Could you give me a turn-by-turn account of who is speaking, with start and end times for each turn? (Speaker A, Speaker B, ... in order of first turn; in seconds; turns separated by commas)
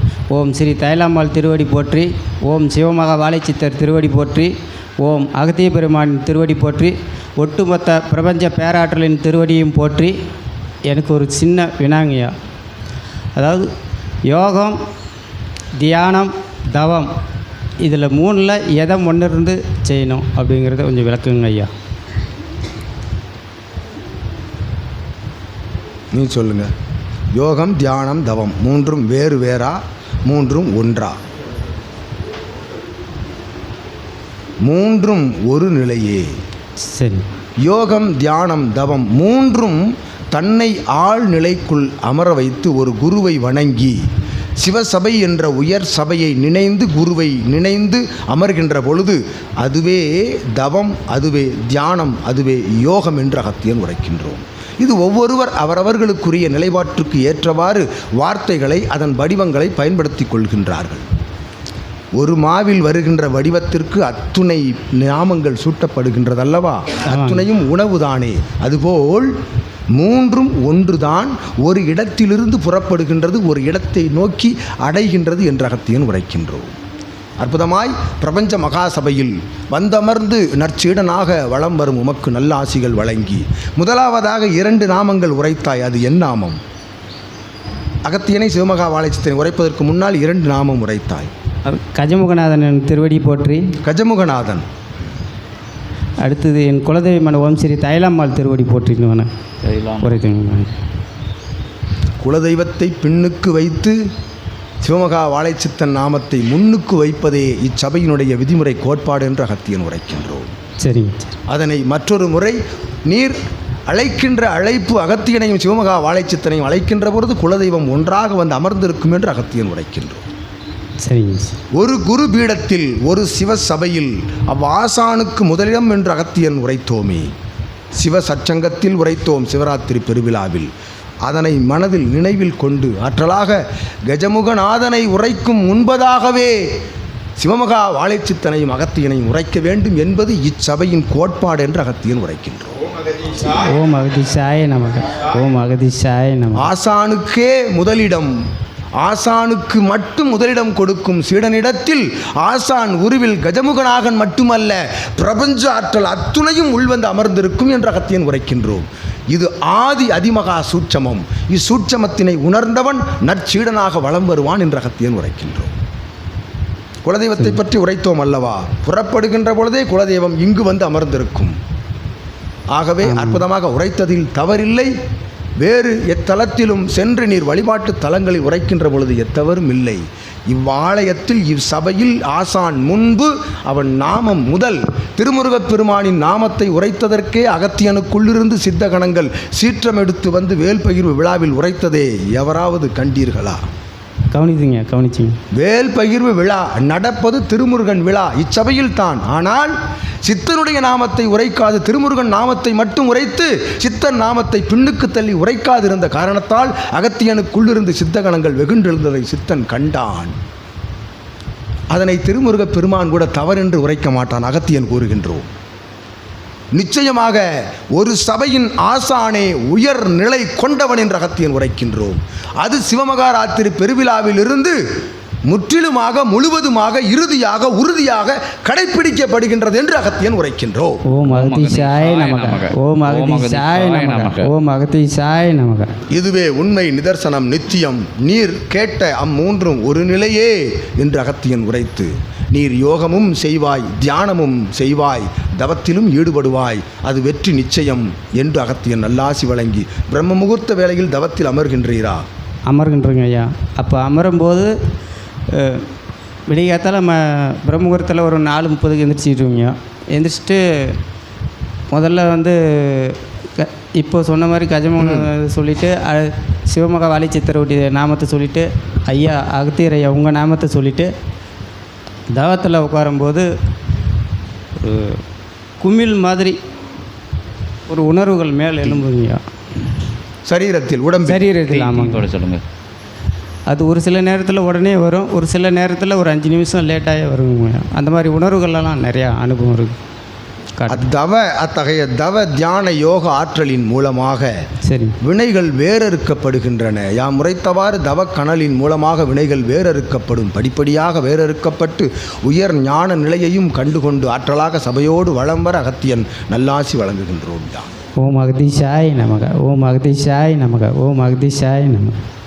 Speaker A: 0.3-10.2, Speaker A: 10.9-12.3, Speaker A: 13.3-13.7, Speaker A: 14.2-14.8, Speaker A: 15.8-17.1, Speaker A: 17.8-21.7, Speaker B: 26.1-26.7, Speaker B: 27.3-31.2, Speaker B: 34.6-36.4, Speaker A: 36.8-37.3, Speaker B: 37.6-44.0, Speaker B: 44.6-61.0, Speaker B: 62.2-69.3, Speaker A: 67.0-67.5, Speaker B: 69.9-76.8, Speaker B: 77.4-86.6, Speaker B: 88.0-91.3, Speaker A: 91.6-93.8, Speaker B: 93.8-94.7, Speaker A: 96.2-99.3, Speaker C: 99.6-100.1, Speaker A: 100.0-100.7, Speaker B: 102.2-104.0, Speaker B: 104.8-110.5, Speaker A: 110.8-111.3, Speaker B: 111.5-113.4, Speaker B: 113.9-120.2, Speaker A: 121.0-121.6, Speaker B: 121.7-127.3, Speaker B: 127.9-130.7, Speaker B: 131.2-136.7, Speaker B: 137.4-142.8, Speaker A: 143.4-146.7, Speaker B: 146.6-148.3, Speaker B: 149.0-165.7, Speaker B: 167.1-171.6, Speaker B: 172.7-174.9, Speaker A: 173.0-173.4, Speaker B: 175.6-193.6, Speaker A: 194.3-195.4, Speaker B: 195.5-199.7, Speaker B: 200.2-210.3, Speaker B: 211.9-215.5, Speaker B: 216.7-224.8, Speaker B: 225.5-231.0, Speaker A: 231.1-235.9, Speaker C: 231.3-234.5, Speaker B: 236.1-252.2, Speaker A: 252.7-254.7, Speaker A: 255.5-255.9, Speaker A: 256.5-261.0, Speaker A: 261.9-271.1, Speaker B: 265.0-265.3, Speaker A: 272.3-273.5, Speaker A: 274.8-275.2, Speaker A: 275.8-276.6, Speaker A: 277.9-279.4, Speaker B: 280.4-281.5, Speaker A: 281.2-282.2, Speaker C: 281.7-282.6, Speaker A: 283.7-290.0, Speaker A: 290.8-291.1, Speaker B: 290.9-294.6, Speaker A: 294.8-295.2, Speaker B: 295.2-307.9, Speaker A: 308.2-312.2